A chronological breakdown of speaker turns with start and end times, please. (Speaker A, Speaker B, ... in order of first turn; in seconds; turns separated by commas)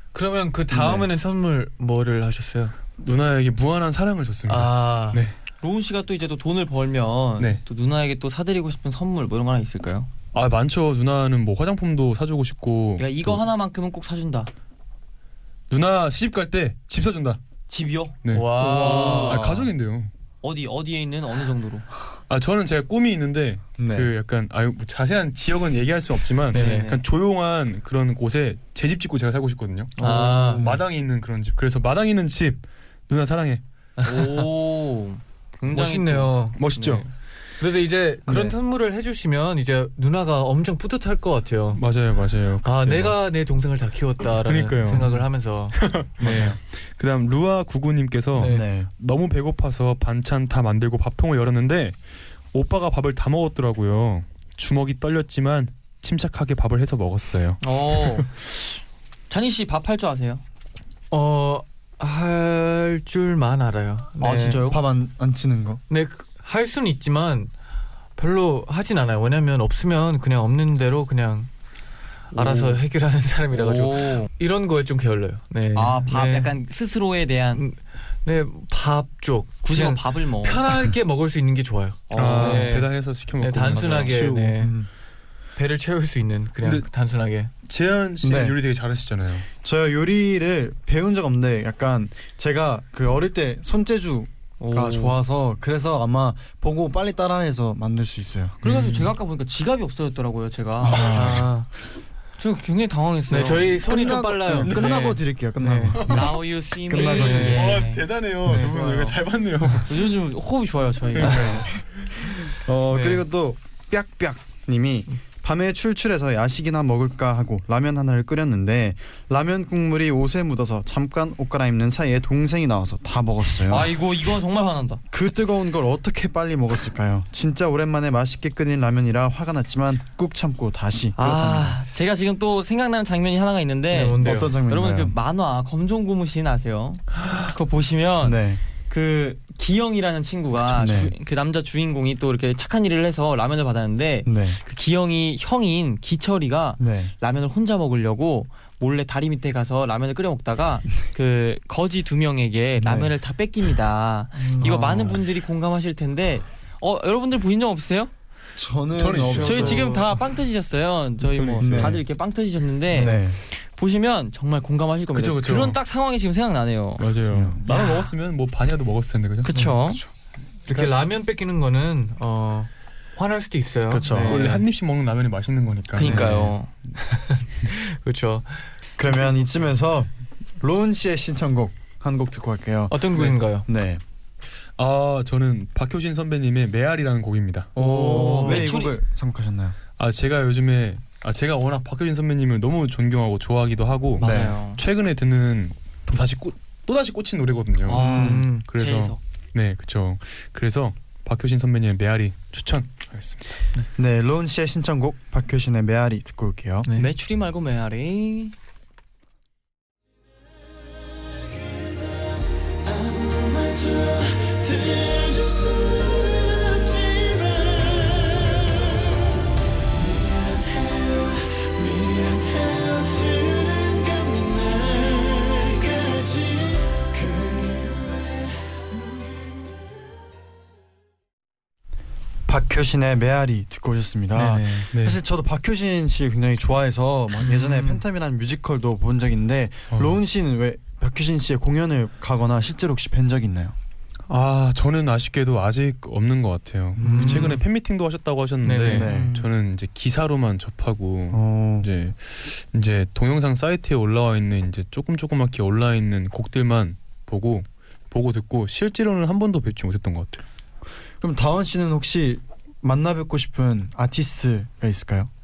Speaker A: 0.1-2.7, Speaker B: 0.7-1.1, Speaker C: 3.0-5.3, Speaker A: 4.5-5.2, Speaker D: 5.6-10.1, Speaker C: 10.3-13.4, Speaker D: 13.0-14.5, Speaker C: 15.7-17.4, Speaker D: 17.7-18.2, Speaker C: 18.2-20.1, Speaker A: 18.3-19.4, Speaker D: 18.7-19.4, Speaker B: 18.8-19.7, Speaker D: 20.4-21.9, Speaker C: 22.3-33.6, Speaker B: 23.8-24.1, Speaker A: 26.5-26.9, Speaker D: 26.5-27.0, Speaker D: 30.0-30.6, Speaker A: 30.0-30.7, Speaker B: 30.5-30.8, Speaker A: 34.0-34.5, Speaker D: 34.0-37.1, Speaker A: 35.7-36.6, Speaker C: 36.5-37.0, Speaker A: 37.6-41.8, Speaker B: 38.2-38.6, Speaker C: 41.7-43.2, Speaker A: 42.6-46.5, Speaker C: 44.4-45.1, Speaker B: 44.9-45.2, Speaker C: 45.7-52.0, Speaker A: 48.4-48.7, Speaker B: 48.4-48.9, Speaker C: 52.5-58.2, Speaker D: 57.6-60.4, Speaker A: 61.1-64.6, Speaker D: 64.2-64.8, Speaker B: 64.6-65.8, Speaker A: 65.9-67.5, Speaker A: 68.2-71.5, Speaker A: 72.3-76.5, Speaker D: 72.3-72.8, Speaker D: 73.5-74.3, Speaker D: 75.7-77.6, Speaker A: 77.5-84.8, Speaker D: 79.6-80.7, Speaker D: 82.1-82.8, Speaker C: 82.1-84.6, Speaker D: 83.7-84.2, Speaker B: 84.6-84.9, Speaker A: 85.5-87.5, Speaker C: 86.6-86.9, Speaker C: 87.6-89.5, Speaker B: 88.2-88.6, Speaker B: 89.6-98.6, Speaker D: 94.6-95.2, Speaker C: 98.6-99.1, Speaker D: 98.6-101.5, Speaker B: 100.8-101.6, Speaker A: 100.9-101.7, Speaker D: 102.4-104.1, Speaker A: 103.3-106.2, Speaker B: 103.8-107.8, Speaker C: 104.7-104.9, Speaker D: 104.7-105.1, Speaker D: 106.0-109.2, Speaker C: 106.9-110.0, Speaker A: 107.0-107.8, Speaker D: 109.8-111.7, Speaker C: 111.1-111.8, Speaker B: 111.7-123.9, Speaker A: 112.9-113.2, Speaker D: 123.6-125.0, Speaker B: 125.1-131.7, Speaker D: 131.2-158.1, Speaker A: 133.9-134.6, Speaker B: 134.2-135.2, Speaker B: 138.2-138.6, Speaker B: 140.7-141.1, Speaker B: 144.2-144.6, Speaker B: 146.8-147.1, Speaker B: 152.8-153.1, Speaker A: 154.3-154.9, Speaker B: 154.6-155.2, Speaker B: 158.6-160.0, Speaker C: 158.9-160.0, Speaker A: 159.2-160.0, Speaker D: 159.4-167.1, Speaker C: 161.3-161.9, Speaker B: 161.6-162.0, Speaker B: 162.9-163.4, Speaker C: 165.1-165.8, Speaker C: 167.0-169.5, Speaker B: 167.3-167.6, Speaker D: 167.7-168.1, Speaker D: 169.4-170.0, Speaker B: 169.8-170.1, Speaker A: 170.7-174.6, Speaker C: 170.7-170.9, Speaker B: 173.9-174.6, Speaker D: 174.1-174.5, Speaker C: 174.2-176.2, Speaker B: 175.9-176.5, Speaker D: 175.9-176.7, Speaker A: 176.1-176.5, Speaker A: 177.1-178.7, Speaker B: 179.0-184.0, Speaker A: 182.9-183.7, Speaker C: 184.8-187.7, Speaker B: 187.7-189.8, Speaker A: 187.8-188.7, Speaker D: 187.8-189.0, Speaker C: 190.0-203.4, Speaker B: 194.2-194.6, Speaker D: 194.2-194.8, Speaker D: 197.8-199.2, Speaker B: 198.0-198.5, Speaker A: 198.0-198.7, Speaker B: 203.9-206.9, Speaker D: 206.9-208.5, Speaker B: 216.9-217.7, Speaker B: 226.2-227.2, Speaker B: 232.4-243.8, Speaker A: 234.3-234.9, Speaker C: 234.9-235.2, Speaker A: 237.4-238.0, Speaker C: 239.9-240.2, Speaker C: 244.3-260.4, Speaker B: 247.0-247.6, Speaker A: 247.0-247.6, Speaker A: 248.6-249.1, Speaker B: 248.8-249.3, Speaker D: 249.0-249.5, Speaker B: 251.3-251.9, Speaker B: 261.2-265.3